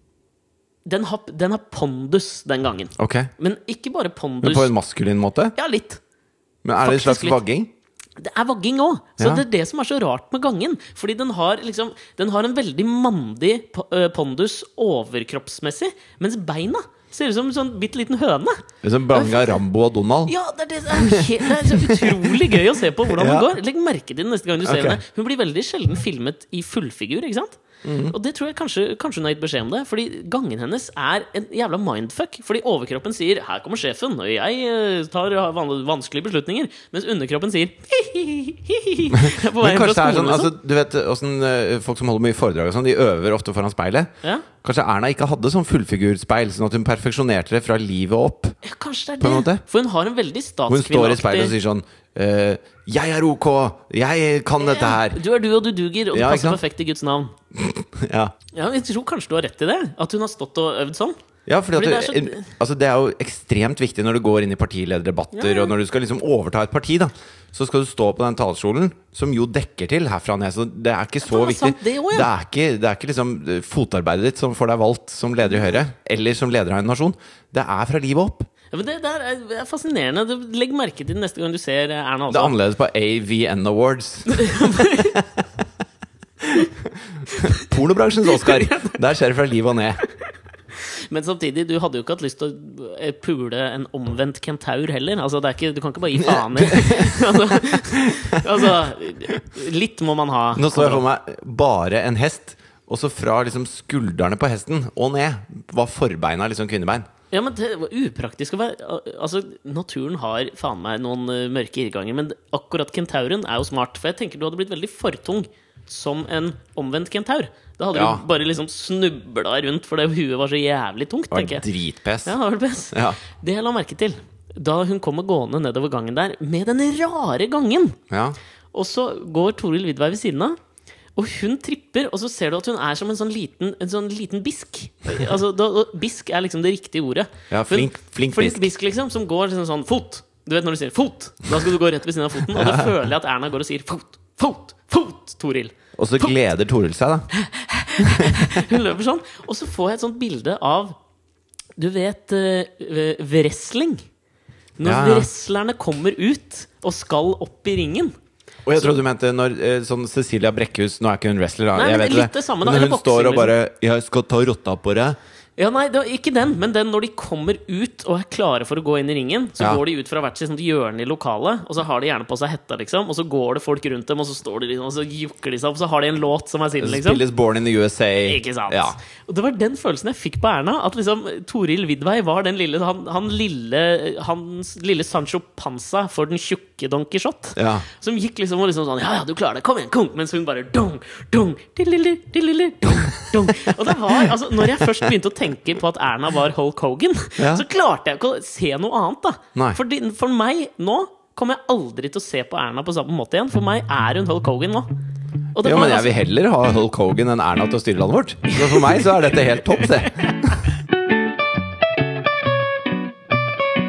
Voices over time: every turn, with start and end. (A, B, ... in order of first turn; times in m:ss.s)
0:00.9-0:04.7 A
0:03.0-0:03.3 B
0:04.4-0:05.6 B
0:05.6-0:06.0 A
0:06.6-0:07.7 B
0:06.8-0:07.4 A
0:08.2-0:18.6 A
0:09.2-0:09.4 B
0:18.8-0:20.3 B
0:19.1-0:19.6 A
0:20.2-0:40.5 A
0:20.9-0:23.5 B
0:24.6-0:25.0 B
0:27.8-0:28.1 B
0:39.1-0:48.6 B
0:48.6-0:51.6 A
0:49.2-0:49.6 B
0:50.7-0:55.2 B
0:54.6-0:57.4 A
0:56.1-0:56.6 B
0:57.6-0:58.3 B
0:58.5-1:01.2 A
1:01.5-1:18.5 B
1:01.7-1:02.5 A
1:05.3-1:05.7 A
1:11.2-1:12.3 A
1:18.7-1:22.6 A
1:22.3-1:25.2 B
1:24.3-1:25.2 A
1:26.4-1:30.0 B
1:28.4-1:28.9 A
1:31.1-1:41.0 A
1:36.2-1:38.7 B
1:40.5-1:47.1 B
1:47.3-2:01.6 A
1:57.9-1:58.2 B
2:01.3-2:02.4 B
2:02.2-2:08.0 A
2:02.9-2:03.2 B
2:08.1-2:08.4 B
2:08.7-2:10.6 A
2:11.2-2:26.4 A
2:17.5-2:18.7 B
2:22.5-2:22.9 B
2:26.0-2:27.3 B
2:27.3-2:31.0 A
2:28.0-2:28.6 B
2:31.8-2:34.0 A
2:34.8-2:38.1 A
2:34.8-2:35.3 B
2:38.6-2:45.2 B
2:41.8-2:43.6 A
2:45.6-2:57.2 A
2:56.8-2:59.0 B
2:58.2-3:24.9 A
3:07.6-3:07.9 B
3:13.5-3:15.1 B
3:17.4-3:17.6 B
3:25.6-3:26.1 A
3:25.6-3:30.6 B
3:28.5-3:30.3 A